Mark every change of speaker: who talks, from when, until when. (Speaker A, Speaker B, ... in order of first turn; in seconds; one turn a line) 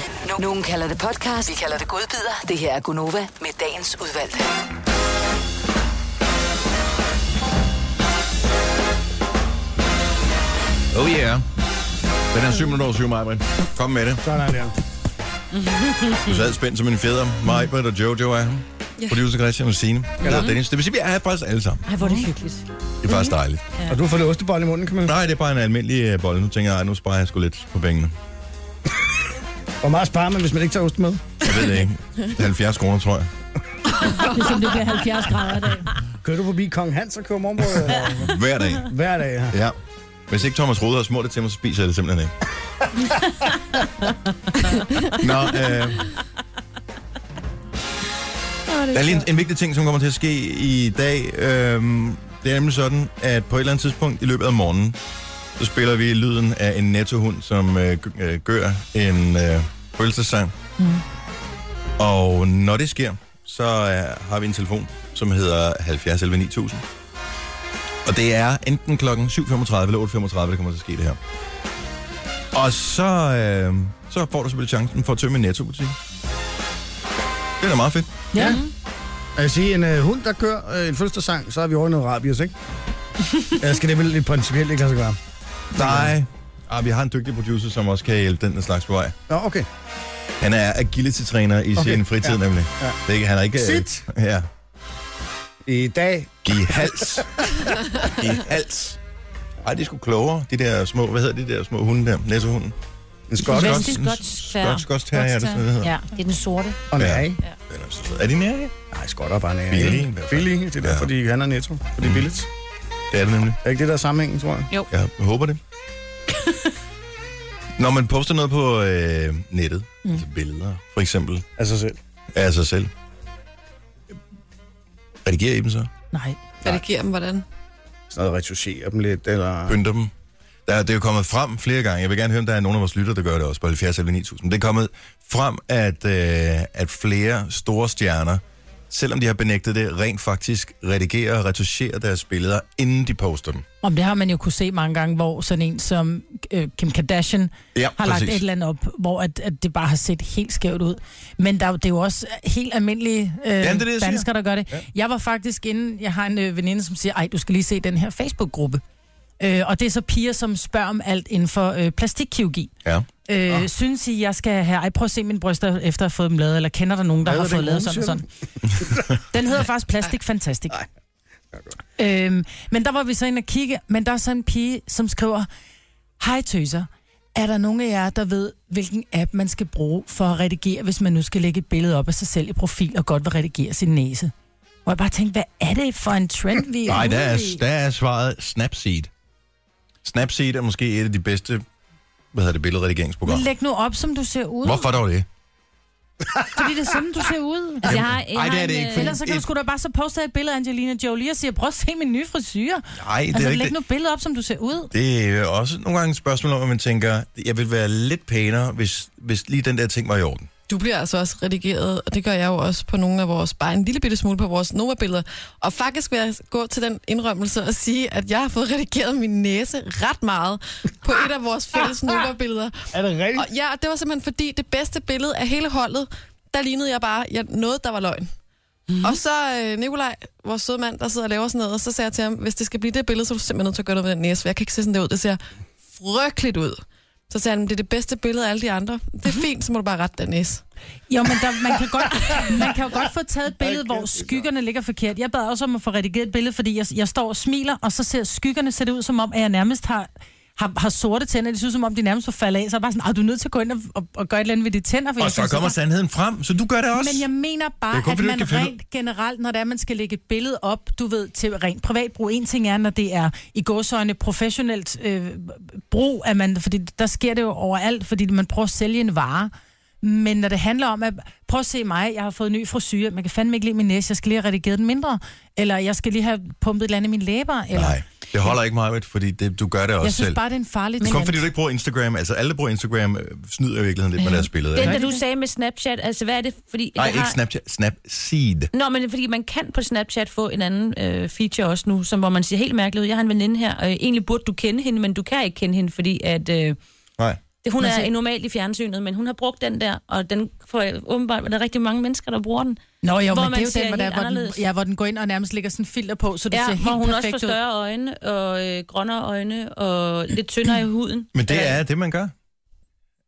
Speaker A: 0.2-4.5
Speaker B: 10.9-11.4
Speaker B: 12.3-14.2
Speaker C: 14.2-14.8
Speaker D: 15.6-16.4
Speaker B: 16.3-21.9
Speaker C: 20.2-20.5
Speaker D: 20.3-20.6
Speaker D: 21.9-22.6
Speaker E: 22.0-22.3
Speaker B: 23.0-23.6
Speaker C: 23.9-25.2
Speaker B: 25.1-28.1
Speaker C: 29.8-31.4
Speaker B: 31.4-33.3
Speaker F: 34.0-34.3
Speaker E: 34.2-35.9
Speaker C: 36.2-38.3
Speaker B: 38.3-38.9
Speaker C: 38.9-39.6
Speaker B: 40.3-42.3
Speaker B: 45.2-46.1
Speaker D: 48.7-49.2
Speaker B: 48.9-55.0
Speaker B: 55.6-60.5
Speaker B: 62.0-66.8
Speaker B: 68.0-71.2
Speaker B: 72.5-76.0
Speaker B: 77.6-78.1
Speaker E: 78.3-78.6
Speaker D: 78.4-78.7
Speaker C: 79.4-82.5
Speaker C: 83.6-85.2
Speaker C: 85.8-86.2
Speaker B: 85.8-89.2
Speaker C: 89.3-89.7
Speaker B: 90.4-94.5
Speaker C: 91.8-93.0
Speaker C: 93.6-94.0
Speaker C: 95.7-97.2
Speaker B: 96.5-99.0
Speaker B: 99.6-102.8
Speaker C: 103.3-103.9
Speaker B: 103.4-105.9
Speaker D: 103.5-104.9
Speaker E: 105.2-106.0
Speaker D: 105.8-106.8
Speaker C: 106.9-107.4
Speaker B: 107.0-108.7
Speaker C: 108.9-112.5
Speaker B: 109.7-111.1
Speaker B: 113.1-113.6
Speaker C: 113.6-114.7
Speaker B: 114.9-115.6
Speaker B: 117.8-121.5
Speaker C: 121.6-122.0
Speaker B: 122.3-122.9
Speaker B: 125.2-125.9
Speaker E: 126.1-126.4
Speaker F: 126.6-127.5
Speaker C: 128.1-129.8
Speaker B: 129.7-130.1
Speaker B: 130.7-143.7
Speaker E: 143.8-158.8
Speaker B: 147.7-148.4
Speaker B: 153.6-154.3
Speaker E: 159.4-162.7
Speaker E: 163.3-168.2
Speaker C: 167.2-168.3
Speaker E: 169.3-170.8
Speaker E: 172.0-175.5
Speaker E: 176.2-184.3
Speaker E: 184.8-187.6
Speaker B: 186.9-189.1
Speaker B: 190.1-191.6
Speaker B: 192.3-193.5
Speaker E: 193.3-194.9
Speaker B: 194.6-195.3
Speaker E: 196.5-198.0
Speaker D: 197.8-199.2
Speaker B: 197.8-199.5
Speaker E: 198.9-204.9
Speaker B: 203.0-203.8
Speaker B: 204.9-210.5
Speaker F: 210.7-228.3
Speaker C: 222.9-223.5
Speaker D: 228.9-229.2
Speaker F: 229.0-235.4
Speaker F: 235.9-240.6
Speaker E: 241.1-255.8
Speaker B: 255.2-257.3
Speaker E: 256.9-278.0
Speaker B: 257.9-258.7
Speaker B: 277.7-280.4
Speaker E: 280.0-281.4
Speaker B: 281.0-285.0
Speaker D: 284.8-287.4
Speaker E: 284.8-285.2
Speaker B: 287.0-288.7
Speaker D: 288.7-296.8
Speaker D: 297.6-302.8
Speaker E: 297.8-298.1
Speaker E: 303.0-307.6
Speaker D: 303.3-304.6
Speaker D: 306.5-311.8
Speaker B: 311.3-312.3